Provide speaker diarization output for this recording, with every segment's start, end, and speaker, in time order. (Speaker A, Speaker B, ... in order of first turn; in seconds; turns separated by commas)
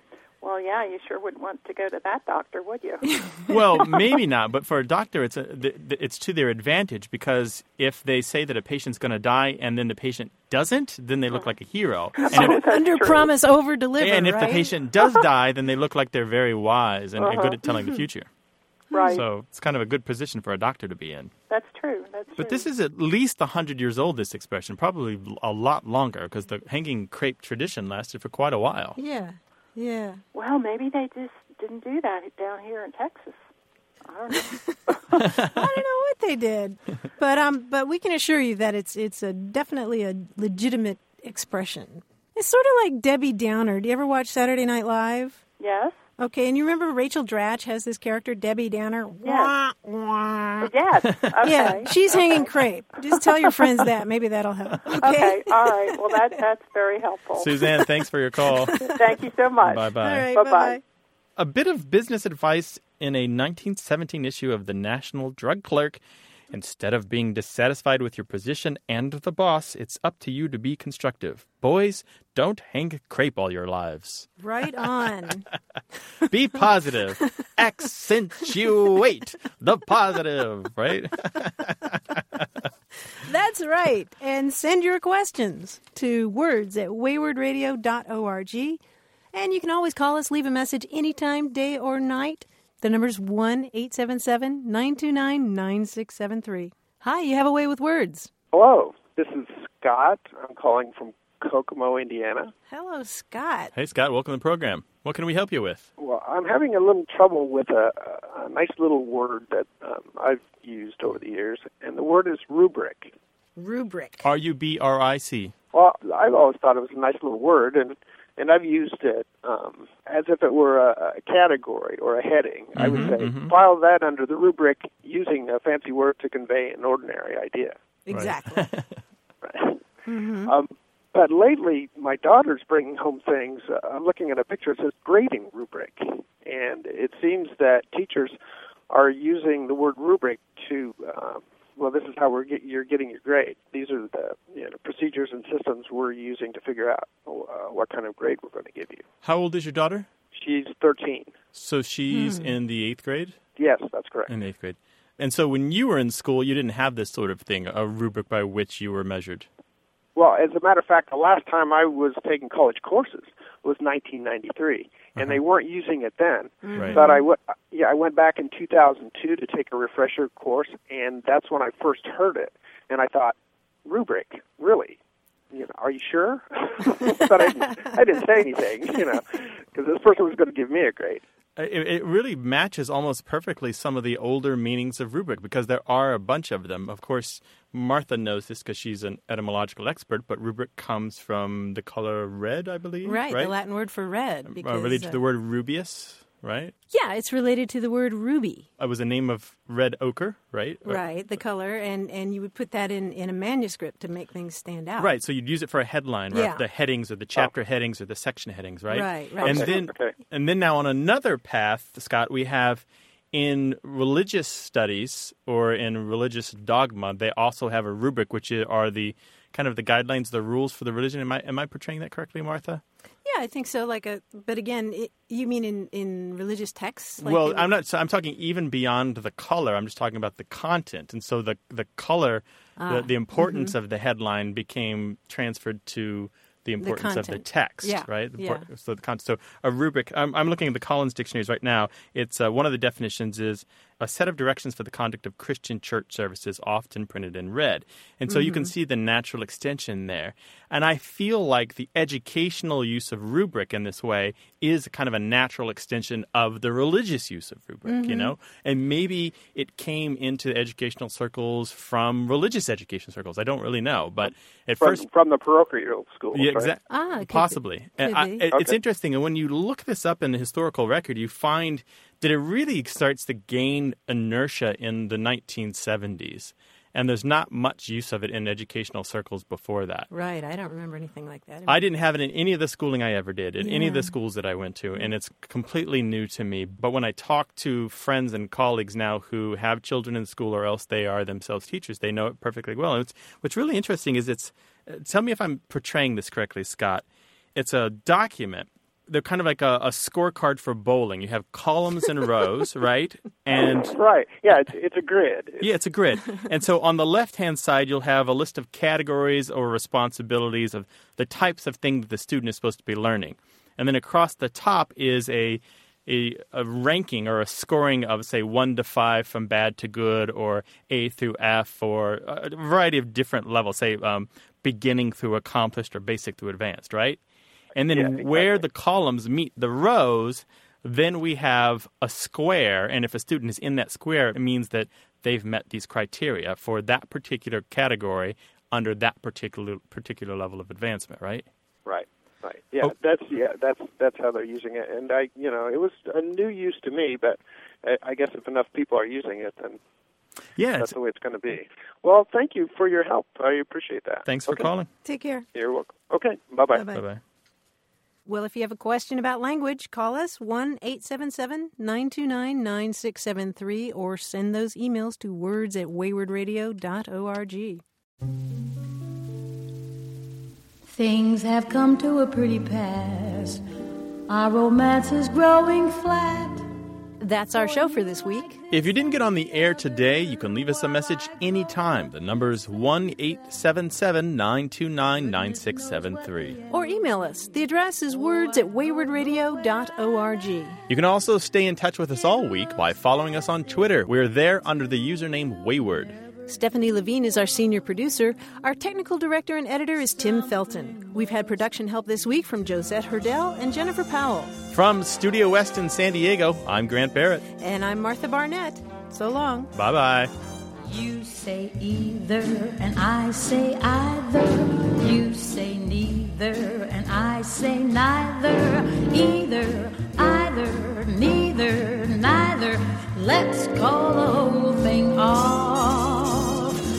Speaker A: 0.4-3.2, Speaker B: 3.5-12.7, Speaker C: 12.2-14.7, Speaker A: 12.3-13.3, Speaker B: 14.0-18.3, Speaker A: 17.2-17.6, Speaker A: 18.9-19.2, Speaker C: 18.9-19.2, Speaker B: 19.1-21.3, Speaker A: 21.5-22.7, Speaker B: 22.4-29.0, Speaker C: 29.0-30.2, Speaker A: 30.3-33.4, Speaker A: 34.1-35.2, Speaker C: 34.4-45.4, Speaker B: 35.2-35.6, Speaker A: 45.6-46.0, Speaker C: 46.2-50.7, Speaker A: 49.2-49.5, Speaker A: 50.6-52.5, Speaker B: 51.1-51.5, Speaker C: 51.4-56.1, Speaker A: 55.0-57.5, Speaker B: 57.4-58.8, Speaker A: 58.8-60.8, Speaker B: 59.6-60.3, Speaker C: 60.0-60.8, Speaker B: 61.4-66.0, Speaker B: 66.5-74.3, Speaker C: 74.4-75.5, Speaker B: 76.2-82.4, Speaker C: 83.2-88.8, Speaker C: 89.3-98.3, Speaker D: 98.5-102.5, Speaker C: 102.7-103.7, Speaker B: 103.7-105.9, Speaker D: 106.0-113.1, Speaker C: 113.6-114.3, Speaker B: 114.2-115.5, Speaker D: 115.7-127.8, Speaker B: 122.8-123.5, Speaker C: 128.1-128.7, Speaker B: 128.1-128.9, Speaker D: 129.4-129.8, Speaker C: 130.1-130.5, Speaker D: 130.4-138.4, Speaker D: 138.9-149.1, Speaker B: 149.2-150.1, Speaker D: 150.3-151.4, Speaker B: 151.5-153.4, Speaker C: 152.1-152.5, Speaker D: 153.6-154.3, Speaker B: 154.3-159.5, Speaker D: 160.2-173.3, Speaker C: 166.7-167.2, Speaker D: 173.9-175.0, Speaker D: 175.5-181.2, Speaker B: 181.6-193.5, Speaker C: 193.0-195.2, Speaker B: 194.5-196.7, Speaker C: 196.9-198.7, Speaker B: 198.8-201.0, Speaker C: 200.8-205.1, Speaker B: 205.0-222.8, Speaker C: 206.3-206.6, Speaker C: 208.9-209.7, Speaker D: 209.4-210.2, Speaker C: 223.2-227.7, Speaker B: 227.2-265.1, Speaker C: 232.8-233.7, Speaker C: 236.8-238.7, Speaker C: 248.3-248.7, Speaker C: 257.9-258.3, Speaker D: 264.2-266.7, Speaker B: 266.3-280.1, Speaker C: 266.9-268.5, Speaker D: 268.5-268.8, Speaker C: 280.1-281.9, Speaker B: 281.7-297.0, Speaker C: 283.6-284.1, Speaker B: 297.6-304.0, Speaker D: 303.5-305.8, Speaker B: 305.6-327.2, Speaker B: 327.8-341.5, Speaker D: 327.9-328.6, Speaker D: 341.9-349.8, Speaker B: 350.6-350.9, Speaker D: 350.8-354.7, Speaker B: 354.3-354.9, Speaker C: 355.1-355.4, Speaker D: 355.5-356.9, Speaker C: 356.7-357.0, Speaker B: 356.9-357.2, Speaker C: 358.3-367.8, Speaker E: 370.9-373.6, Speaker E: 374.3-376.7, Speaker C: 377.2-378.6, Speaker B: 378.7-386.6, Speaker C: 386.7-390.8, Speaker B: 390.9-396.2, Speaker C: 396.5-404.6, Speaker B: 404.7-407.4, Speaker C: 407.6-409.7, Speaker B: 409.8-410.3, Speaker E: 410.8-426.8